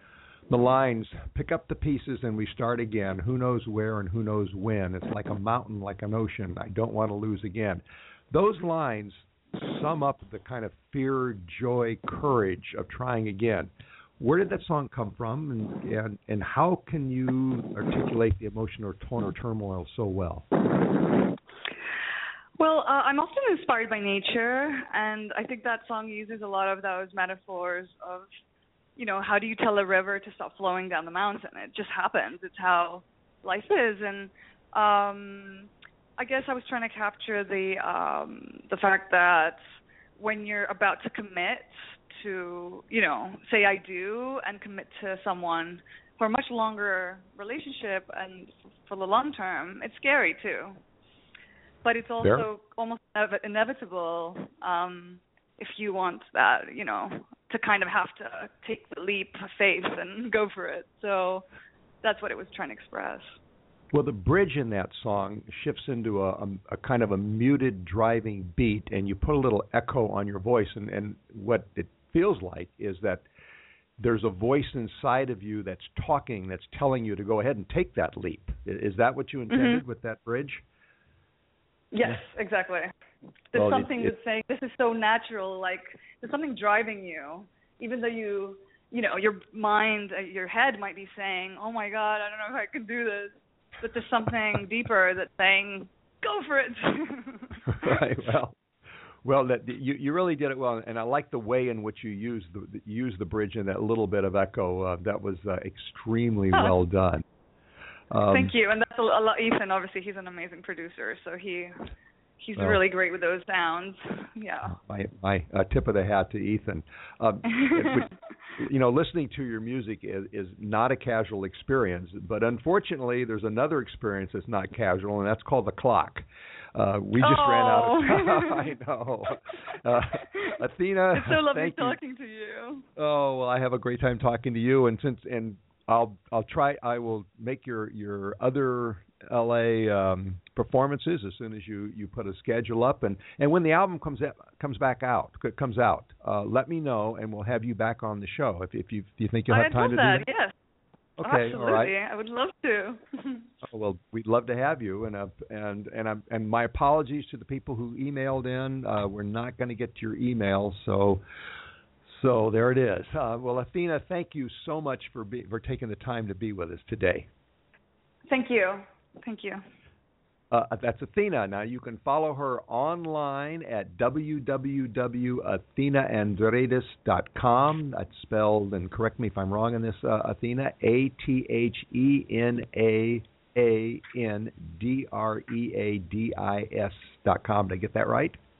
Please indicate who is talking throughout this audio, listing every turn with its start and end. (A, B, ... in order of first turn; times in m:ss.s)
0:00.5-0:20.4 A
0:22.6-0:28.3 B
0:29.0-0:39.6 B
0:40.2-0:50.8 B
0:51.8-1:01.4 B
1:02.0-1:03.4 B
1:03.9-1:13.2 A
1:14.0-1:20.6 A
1:19.5-1:19.8 B
1:21.9-1:22.9 B
1:23.5-1:38.0 B
1:23.5-1:24.1 A
1:37.7-1:38.6 A
1:39.2-1:47.2 A
1:48.1-1:48.5 A
1:48.3-1:51.9 B
1:52.4-1:54.8 B
1:54.6-2:12.0 A
1:57.5-1:57.9 B
2:07.2-2:08.7 B
2:11.1-2:12.8 B
2:13.0-2:30.3 A
2:29.5-2:30.5 B
2:31.2-2:31.9 A
2:31.2-2:33.5 B
2:33.6-2:41.2 A
2:42.0-2:47.3 A
2:48.3-2:49.6 B
2:50.5-3:08.4 A